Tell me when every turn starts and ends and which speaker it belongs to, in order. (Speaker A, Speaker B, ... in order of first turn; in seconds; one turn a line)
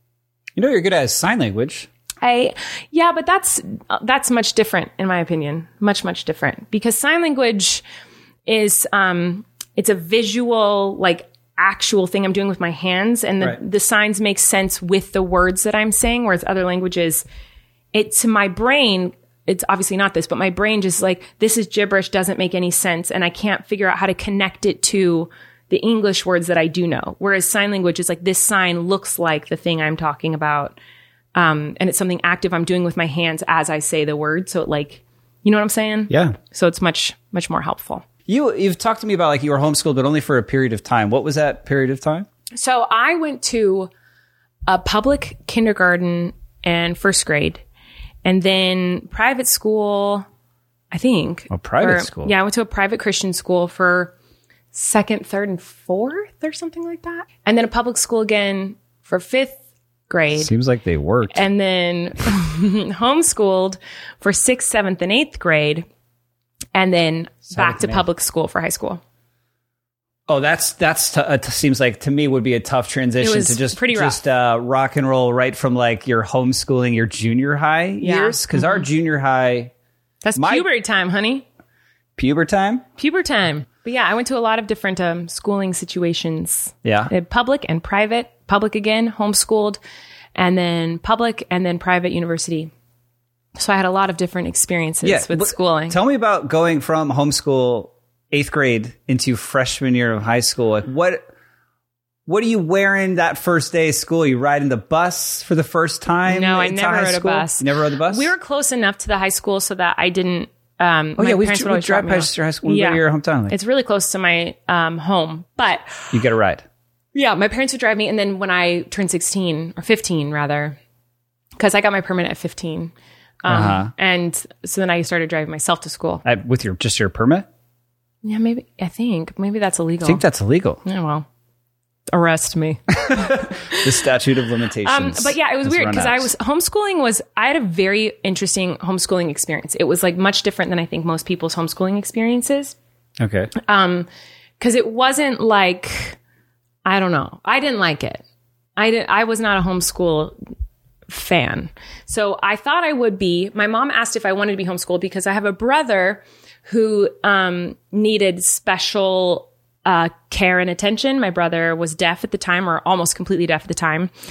Speaker A: 0.6-1.9
Speaker B: 2.2-7.8
Speaker B: 8.4-17.2
Speaker B: 17.9-30.8
Speaker B: 31.3-38.0
Speaker A: 36.1-36.4
Speaker A: 38.3-42.3
Speaker B: 42.5-43.9
Speaker B: 44.7-47.6
Speaker B: 48.2-50.2
Speaker B: 50.9-54.1
Speaker A: 51.5-52.3
Speaker B: 54.7-60.5
Speaker A: 60.3-61.5
Speaker B: 61.3-65.9
Speaker B: 66.7-69.0
Speaker A: 67.5-68.0
Speaker A: 70.3-79.7
Speaker B: 73.2-74.2
Speaker B: 78.0-78.8
Speaker B: 80.2-81.5
Speaker A: 80.4-80.7
Speaker A: 82.2-82.8
Speaker B: 83.0-89.8
Speaker A: 86.8-87.1
Speaker B: 90.4-92.7
Speaker B: 93.5-96.0
Speaker A: 95.0-101.3
Speaker A: 102.3-108.3
Speaker B: 106.3-116.1
Speaker A: 111.2-113.5
Speaker A: 116.1-116.6
Speaker B: 117.1-120.8
Speaker B: 121.6-126.2
Speaker A: 123.5-123.9
Speaker A: 126.2-127.5
Speaker B: 128.2-130.2
Speaker A: 130.0-130.8
Speaker B: 130.8-131.3
Speaker B: 132.1-133.9
Speaker A: 133.0-136.3
Speaker B: 134.8-142.8
Speaker A: 143.2-143.5
Speaker B: 143.6-144.1
Speaker B: 144.6-146.2
Speaker B: 146.9-148.2
Speaker B: 148.8-150.3
Speaker B: 151.1-164.1